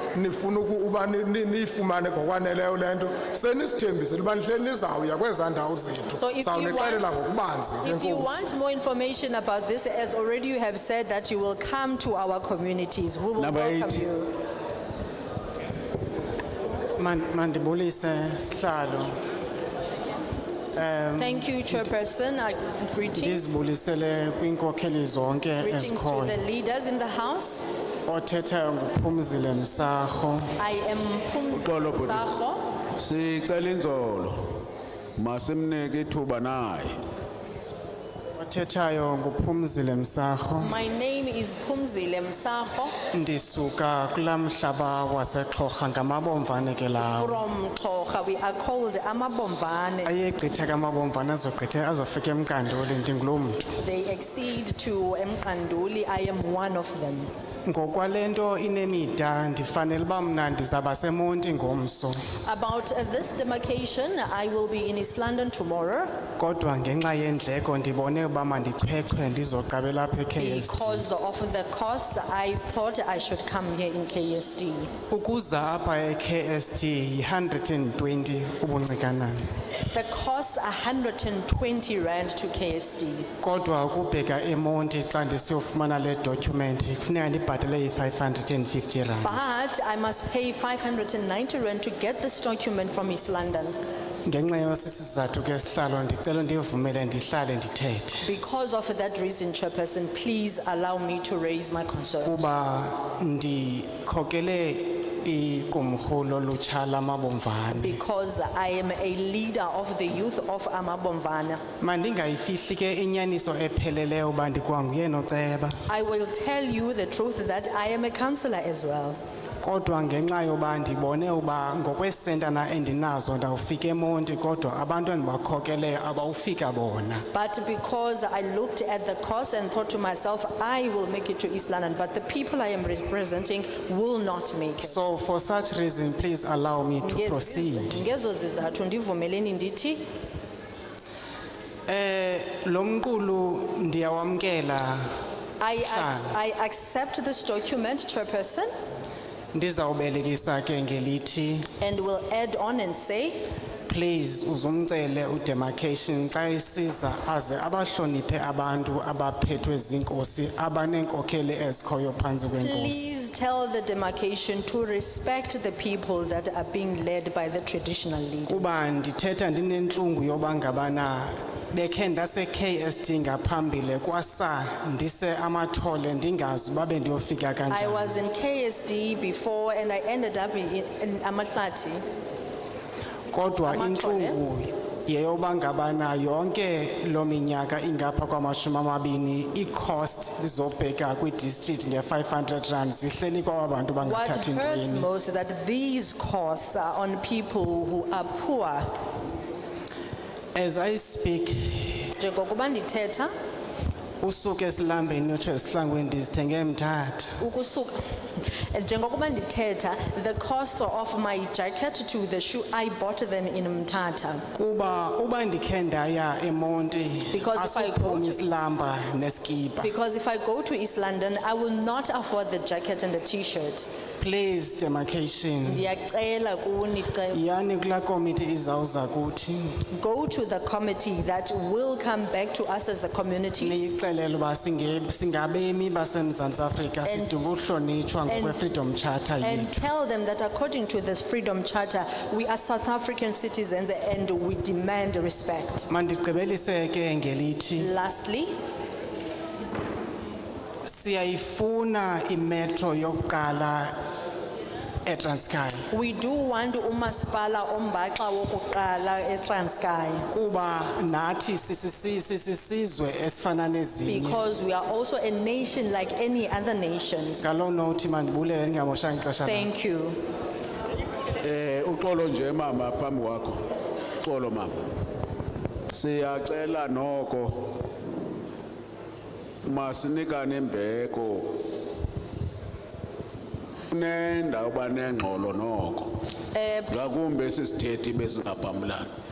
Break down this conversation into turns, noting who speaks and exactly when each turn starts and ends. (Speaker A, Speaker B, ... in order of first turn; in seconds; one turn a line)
Speaker A: 0.1-8.4
Speaker B: 6.2-7.2
Speaker B: 7.8-14.3
Speaker C: 13.3-14.1
Speaker D: 17.0-19.2
Speaker D: 20.7-21.9
Speaker B: 21.2-23.6
Speaker D: 23.2-26.4
Speaker B: 25.6-27.6
Speaker D: 28.1-30.5
Speaker B: 30.6-32.6
Speaker C: 31.5-32.2
Speaker C: 33.0-34.5
Speaker C: 35.2-37.0
Speaker D: 38.4-40.8
Speaker B: 40.6-42.9
Speaker D: 43.1-47.4
Speaker B: 47.0-50.1
Speaker D: 50.0-53.8
Speaker B: 53.8-57.3
Speaker D: 57.6-62.2
Speaker B: 62.4-66.1
Speaker D: 66.4-71.0
Speaker B: 70.4-74.9
Speaker D: 75.1-79.5
Speaker B: 79.9-83.3
Speaker D: 83.4-89.4
Speaker B: 89.2-93.7
Speaker D: 94.2-98.2
Speaker B: 98.2-102.5
Speaker D: 102.2-108.0
Speaker B: 107.7-111.6
Speaker D: 111.8-115.8
Speaker B: 115.9-119.2
Speaker D: 119.6-127.2
Speaker B: 127.3-135.1
Speaker D: 134.8-138.0
Speaker B: 137.0-140.0
Speaker D: 141.9-145.1
Speaker B: 145.6-148.7
Speaker D: 145.7-146.3
Speaker D: 149.5-151.7
Speaker B: 151.8-153.5
Speaker D: 153.9-163.2
Speaker B: 162.6-168.8
Speaker D: 168.5-178.2
Speaker B: 177.7-182.0
Speaker D: 183.3-195.1
Speaker B: 183.6-184.4
Speaker B: 194.0-198.9
Speaker D: 200.5-202.1
Speaker B: 202.2-203.3
Speaker D: 204.2-207.4
Speaker B: 207.4-214.4
Speaker D: 214.5-219.9
Speaker B: 217.3-218.4
Speaker B: 219.8-223.9
Speaker D: 224.2-225.9
Speaker B: 225.6-227.4
Speaker D: 227.3-229.8
Speaker B: 229.9-233.9
Speaker D: 233.6-239.8
Speaker B: 237.0-237.3
Speaker B: 238.2-238.6
Speaker B: 239.4-245.9
Speaker D: 245.9-247.9
Speaker B: 247.8-248.5
Speaker D: 250.8-253.9
Speaker D: 255.0-255.9
Speaker B: 255.9-260.3
Speaker D: 260.3-264.4
Speaker B: 264.1-267.5
Speaker D: 267.4-269.7
Speaker B: 269.4-270.2
Speaker C: 271.4-273.6
Speaker C: 274.2-274.7
Speaker C: 275.9-277.8
Speaker C: 279.6-281.6
Speaker C: 283.9-286.2
Speaker B: 286.5-287.0
Speaker C: 286.9-289.1